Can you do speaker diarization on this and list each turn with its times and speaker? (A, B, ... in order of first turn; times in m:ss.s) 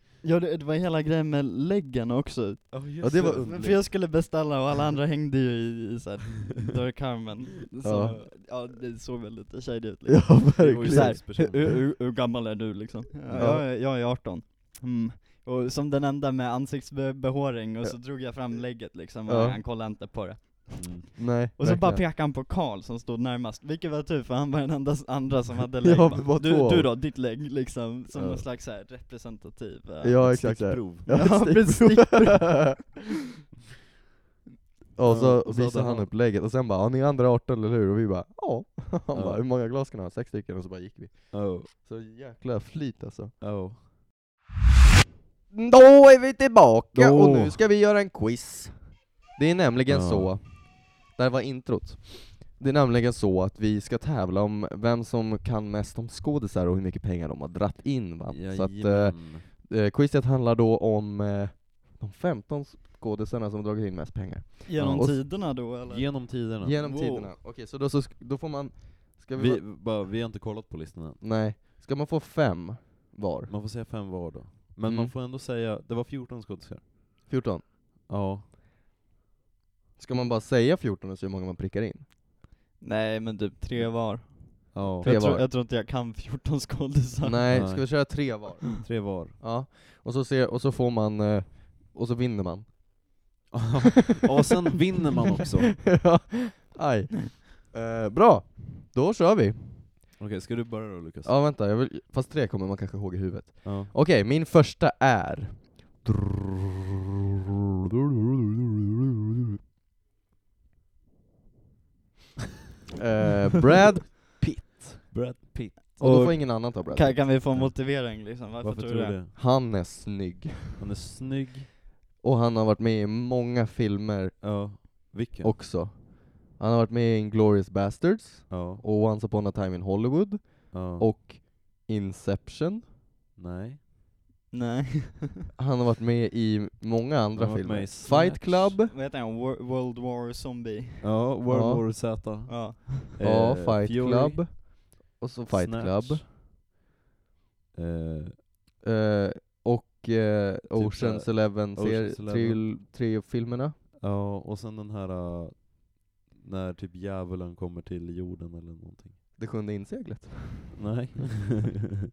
0:00.2-0:32.9 A
0:02.7-0:03.9 B
0:03.0-0:03.9 C
0:07.8-0:08.2 C
0:08.0-0:08.3 B
0:10.1-0:11.2 C
0:10.6-0:11.8 B
0:13.3-0:13.6 C
0:19.3-0:19.6 C
0:20.8-0:21.1 B
0:21.2-0:22.0 C
0:25.8-0:26.9 C
0:28.1-0:28.4 B
0:30.0-0:32.8 C
0:30.3-0:31.1 B
0:35.0-0:43.3 C
0:35.1-0:36.1 B
0:39.1-0:39.4 B
0:41.3-0:41.7 B
0:43.4-0:43.9 B
0:45.5-1:05.2 C
0:46.9-0:47.6 B
0:49.9-0:50.3 B
0:58.3-0:59.4 B
1:04.6-1:07.3 A
1:04.8-1:06.9 B
1:06.6-1:09.6 C
1:09.3-1:11.3 B
1:11.2-1:13.5 C
1:13.5-1:16.9 B
1:14.8-1:15.1 C
1:17.3-1:17.6 C
1:18.1-1:18.4 B
1:20.0-1:22.1 C
1:22.8-1:27.7 A
1:24.7-1:25.2 B
1:25.0-1:25.5 C
1:27.2-1:33.4 C
1:27.5-1:29.4 B
1:33.5-1:35.8 B
1:35.8-1:40.0 C
1:40.2-1:41.4 B
1:41.2-1:46.6 C
1:43.6-1:43.9 B
1:48.4-1:49.6 C
1:52.9-1:55.2 C
1:55.1-1:56.0 B
1:56.0-1:59.2 A
1:56.0-1:57.4 C
1:57.5-1:59.4 B
1:59.4-2:00.8 C
2:00.8-2:01.7 B
2:02.2-2:12.8 C
2:04.4-2:05.6 B
2:08.5-2:08.8 B
2:10.7-2:11.1 B
2:13.4-2:13.8 B
2:14.5-2:15.4 A
2:15.6-2:18.9 C
2:17.4-2:18.8 B
2:18.8-2:21.1 A
2:21.0-2:24.5 B
2:21.5-2:21.8 C
2:22.5-2:22.9 A
2:23.2-2:26.3 C
2:25.5-2:26.3 B
2:27.7-2:28.4 B
2:28.8-2:33.8 C
2:30.7-2:32.8 B
2:34.0-2:39.2 B
2:39.4-2:40.8 C
2:40.7-2:41.6 B